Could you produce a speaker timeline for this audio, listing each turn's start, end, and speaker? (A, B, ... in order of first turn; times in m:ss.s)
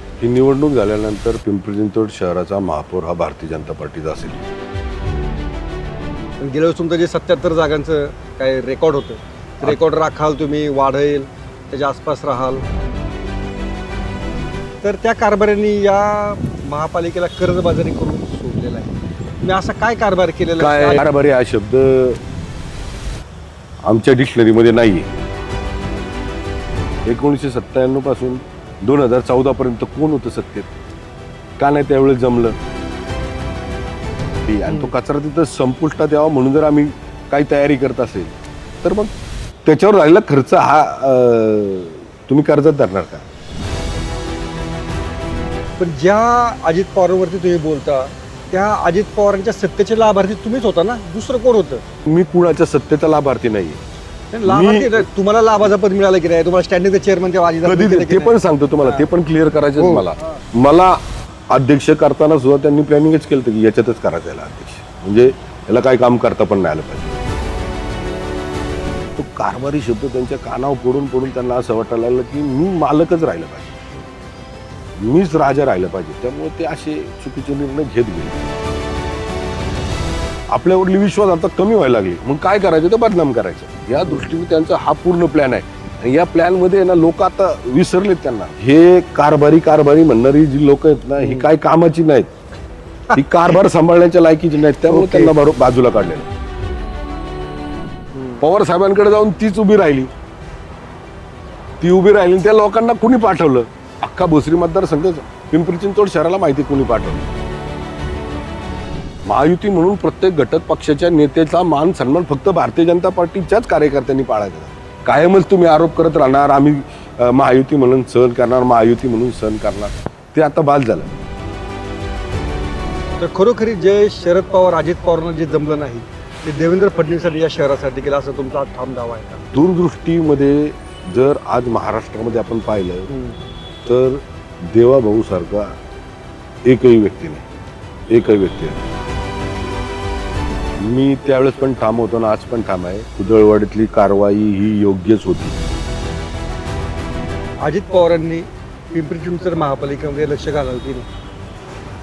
0:00.2-0:04.4 A
0:06.4-0:12.6 B
0:14.8-0:21.0 B
0:20.6-0:22.2 A
0:23.8-0:25.1 A
0:27.1-0:30.7 A
0:31.6-0:32.6 A
0:34.4-0:39.1 A
0:39.6-0:43.2 A
0:45.8-0:51.8 B
0:52.1-0:53.8 A
0:54.3-0:59.0 B
0:54.5-0:55.1 A
0:57.7-1:01.0 A
0:59.8-1:00.1 B
1:01.5-1:07.1 A
1:09.2-1:14.0 A
1:15.0-1:18.4 A
1:20.5-1:32.3 A
1:31.2-1:31.5 B
1:33.1-1:36.3 A
1:34.9-1:35.3 B
1:38.4-1:40.1 A
1:41.8-1:47.3 A
1:49.3-2:01.1 A
2:03.2-2:09.5 B
2:09.5-2:13.1 A
2:13.1-2:13.3 B
2:13.8-2:15.7 A
2:16.6-2:17.4 A
2:18.1-2:18.8 A
2:20.8-2:25.6 A
2:27.6-2:31.1 B